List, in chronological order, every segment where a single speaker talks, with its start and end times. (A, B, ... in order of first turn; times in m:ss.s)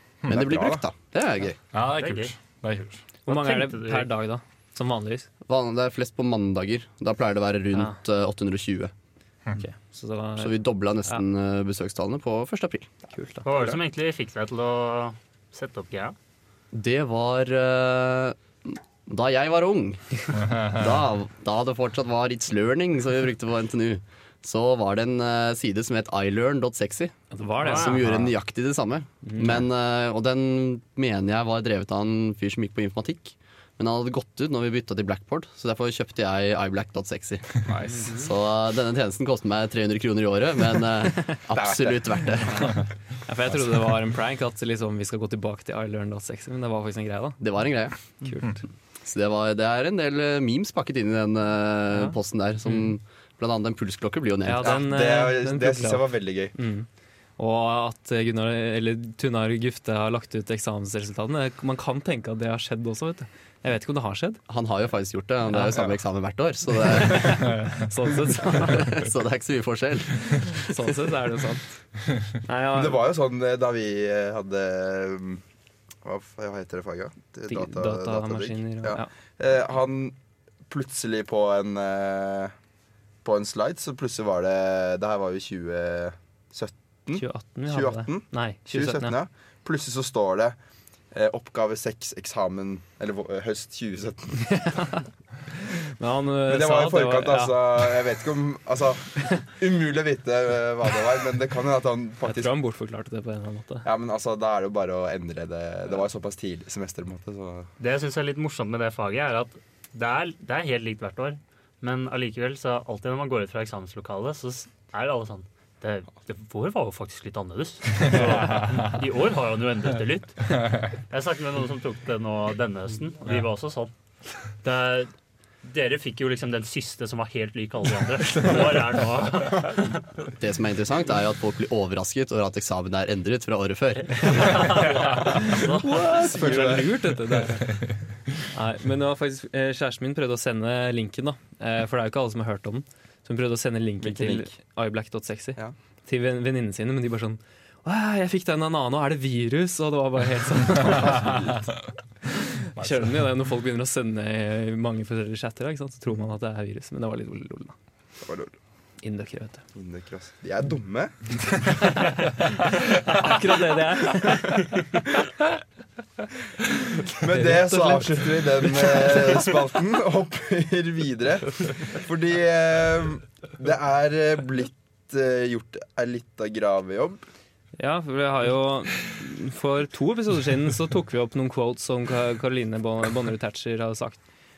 0:00.3-0:00.8 A
0:00.3-0:01.6 B
0:01.7-0:03.0 C
0:01.9-0:02.3 D
0:03.2-0:05.3 E
0:03.3-0:04.1 D
0:05.4-0:08.9 B
0:09.6-0:11.2 E
0:10.4-0:12.9 B
0:13.1-0:13.4 E
0:13.4-0:16.1 D
0:13.5-0:13.8 A
0:16.7-0:42.8 B
0:20.3-0:21.0 C
0:27.3-0:28.0 E
0:27.6-0:28.0 D
0:29.2-0:29.6 E
0:37.7-0:38.1 A
0:41.5-0:42.3 A
0:43.2-0:47.4 E
0:47.4-0:47.9 B
0:48.2-0:48.6 E
0:49.0-0:54.8 B
0:54.4-0:56.9 E
0:54.6-0:56.5 A
0:57.4-1:04.4 E
1:04.5-1:07.6 B
1:07.0-1:09.1 E
1:07.4-1:07.8 C
1:08.4-1:10.6 B
1:10.5-1:11.8 E
1:12.3-1:13.0 E
1:12.7-1:15.4 A
1:16.0-1:20.2 A
1:17.5-1:19.1 E
1:20.7-1:22.5 A
1:23.2-1:30.6 A
1:27.2-1:29.2 E
1:31.1-1:34.6 A
1:34.4-1:35.0 E
1:35.6-1:38.0 E
1:36.5-1:42.5 A
1:42.2-1:43.9 E
1:43.8-1:47.7 A
1:47.8-2:03.9 D
1:58.0-1:58.9 C
2:00.6-2:00.8 C
2:04.6-2:05.1 D
2:05.6-2:10.0 D
2:10.4-2:14.9 B
2:14.2-2:16.0 D
2:14.6-2:15.4 C
2:15.2-2:17.8 E
2:16.1-2:17.0 A
2:18.5-2:31.6 E
2:24.0-2:24.5 A
2:32.3-2:37.7 E
2:32.8-2:33.1 C
2:38.2-2:38.5 A
2:39.0-2:39.6 E
2:39.7-2:41.1 A
2:41.7-2:42.3 E
2:43.0-2:44.7 E
2:47.2-2:57.2 A
2:47.2-2:49.4 E
2:57.8-3:04.2 E